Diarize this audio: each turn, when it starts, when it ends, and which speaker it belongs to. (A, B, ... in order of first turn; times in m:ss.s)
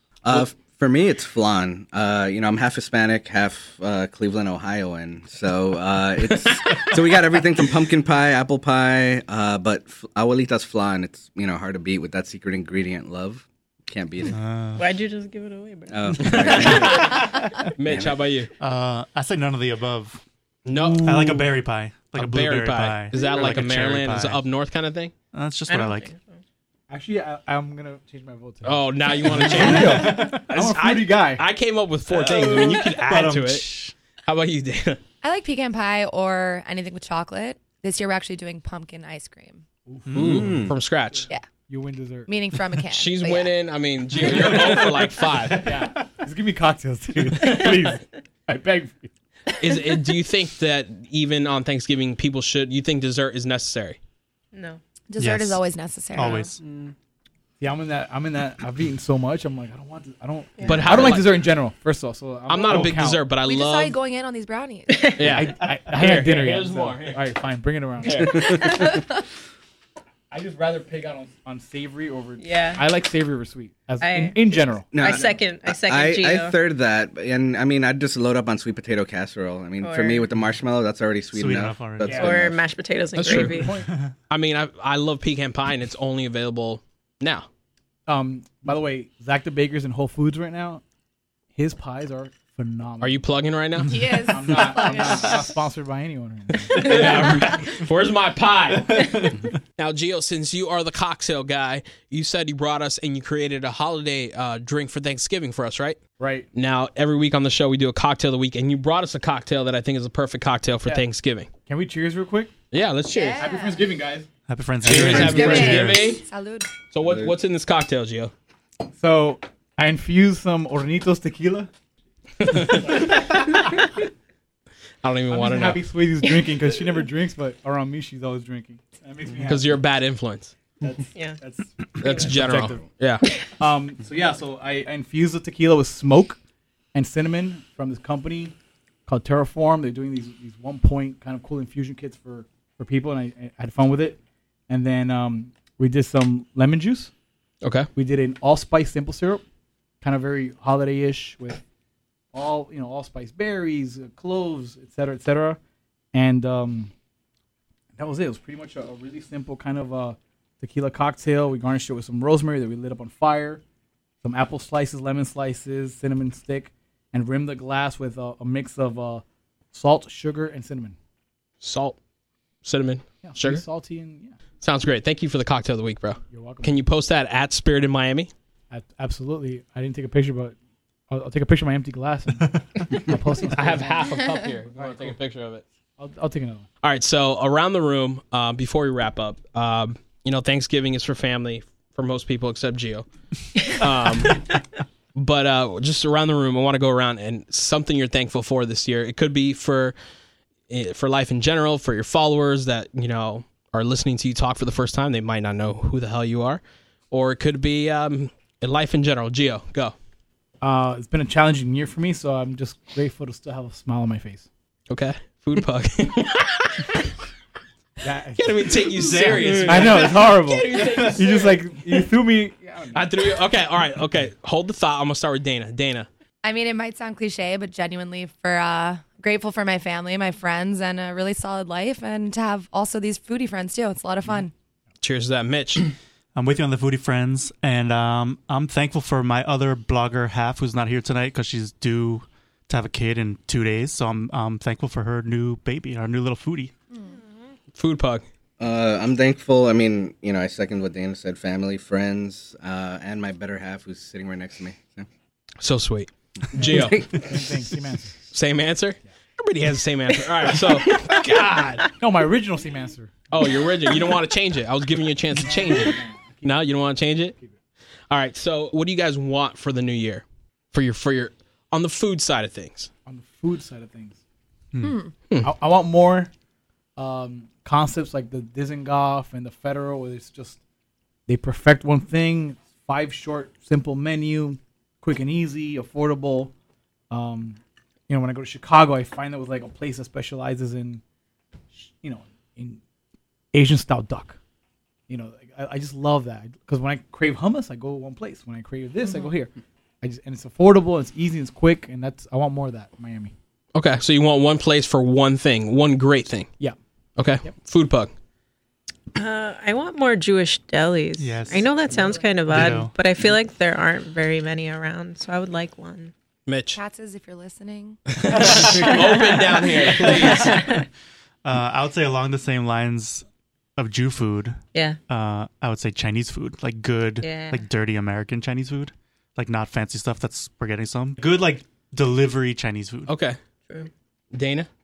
0:00.2-0:14.4 A
0:14.3-0:14.8 B
0:14.8-0:17.0 C
0:15.9-0:17.2 A
0:16.2-0:18.5 D
0:17.8-0:18.2 A
0:18.6-0:20.2 B
0:20.6-0:21.4 D
0:20.8-0:21.5 E
0:21.0-0:24.4 B
0:22.2-0:25.1 D
0:23.1-0:23.5 C
0:25.3-0:26.1 B
0:25.7-0:26.4 C
0:26.9-0:31.4 E
0:28.6-0:33.7 D
0:29.4-0:30.5 B
0:32.1-0:33.9 B
0:34.2-0:35.0 D
0:35.2-0:39.6 F
0:39.9-0:40.2 E
0:40.1-0:40.7 B
0:40.1-0:41.3 D
0:40.2-0:40.7 A
0:41.2-0:42.3 E
0:42.3-0:43.5 F
0:42.9-0:45.7 D
0:44.2-0:49.1 E
0:49.6-0:54.0 D
0:54.5-0:54.8 C
0:55.1-0:56.5 F
0:55.2-0:55.6 B
0:56.1-0:56.6 B
0:57.6-1:03.3 E
1:00.6-1:01.0 C
1:00.7-1:01.5 D
1:02.5-1:04.0 D
1:03.4-1:05.2 F
1:04.9-1:05.2 C
1:05.2-1:07.2 D
1:05.2-1:08.7 E
1:08.0-1:08.6 D
1:10.3-1:15.4 E
1:12.4-1:12.8 C
1:14.0-1:14.4 C
1:14.9-1:22.6 A
1:14.9-1:16.6 C
1:19.8-1:20.2 C
1:21.3-1:22.3 B
1:22.0-1:22.4 E
1:22.1-1:23.7 C
1:23.2-1:23.7 D
1:23.2-1:23.9 E
1:24.3-1:27.5 D
1:28.1-1:30.8 E
1:31.5-1:33.2 E
1:33.0-1:34.0 D
1:33.9-1:35.6 F
1:34.3-1:37.5 E
1:36.7-1:46.0 D
1:39.0-1:39.3 B
1:46.2-1:46.5 E
1:46.5-1:51.5 D
1:51.7-1:52.5 E
1:52.7-1:53.5 D
1:53.1-1:53.9 F
1:53.4-1:54.3 E
1:54.5-1:56.2 B
1:54.8-1:56.2 D
1:54.9-1:55.4 E
1:55.0-1:55.4 A
1:55.0-1:56.7 F
1:56.9-1:58.3 D
1:57.0-1:57.4 A
1:58.9-2:01.7 E
2:02.4-2:03.2 D
2:02.6-2:03.8 E
2:05.0-2:05.8 D
2:05.3-2:09.8 E
2:09.4-2:10.6 D
2:10.8-2:12.9 E
2:12.0-2:13.3 D
2:13.6-2:16.4 E
2:16.9-2:18.5 E
2:19.0-2:24.2 E
2:24.7-2:27.1 E
2:27.6-2:27.9 D
2:28.0-2:29.4 E
2:30.0-2:31.6 E
2:32.3-2:35.6 E
2:36.1-2:36.9 E
2:38.0-2:43.6 E
2:44.2-2:51.0 E
2:51.6-2:52.0 D
2:52.6-2:53.6 D
2:53.2-2:54.4 E
2:54.6-2:58.3 D
2:56.2-2:56.8 E
2:58.7-3:00.6 E
3:01.1-3:05.2 E
3:03.5-3:05.6 D
3:06.0-3:06.7 E
3:06.8-3:14.6 D
3:15.1-3:20.0 D
3:20.7-3:30.0 D
3:30.6-3:34.5 E
3:34.9-3:37.0 D
3:38.0-3:39.0 E
3:38.4-3:41.6 D
3:39.0-3:41.1 B
3:39.6-3:43.4 E
3:42.9-3:46.1 D
3:46.4-3:54.5 F
3:55.0-3:55.9 D
3:56.4-4:06.7 B
4:07.8-4:08.2 D
4:08.6-4:15.1 A
4:15.6-4:17.2 D
4:17.1-4:18.2 E
4:18.3-4:21.9 D
4:21.9-4:23.3 E
4:23.3-4:27.4 D
4:25.4-4:26.7 E
4:28.1-4:32.9 D
4:33.0-4:34.2 E
4:34.7-4:35.0 B
4:34.8-4:35.1 F
4:35.4-4:36.3 E
4:37.0-4:40.6 E
4:41.3-4:46.5 E
4:47.1-4:47.6 E
4:48.1-4:51.0 E
4:51.8-4:52.8 E
4:53.5-4:54.4 E
4:55.1-5:03.3 E
5:03.8-5:06.5 D
5:07.2-5:08.1 D
5:09.2-5:16.1 C
5:11.2-5:11.9 B
5:11.6-5:12.4 F
5:12.5-5:13.0 B
5:16.5-5:16.8 D
5:16.7-5:18.0 F
5:18.2-5:20.7 D
5:18.4-5:18.9 B
5:18.6-5:19.4 E
5:18.8-5:19.8 F
5:20.5-5:20.8 B
5:21.4-5:23.2 B
5:23.8-5:24.6 B
5:24.7-5:25.0 C
5:25.1-5:33.1 B
5:27.2-5:27.6 C
5:33.1-5:33.4 D
5:34.3-5:34.7 D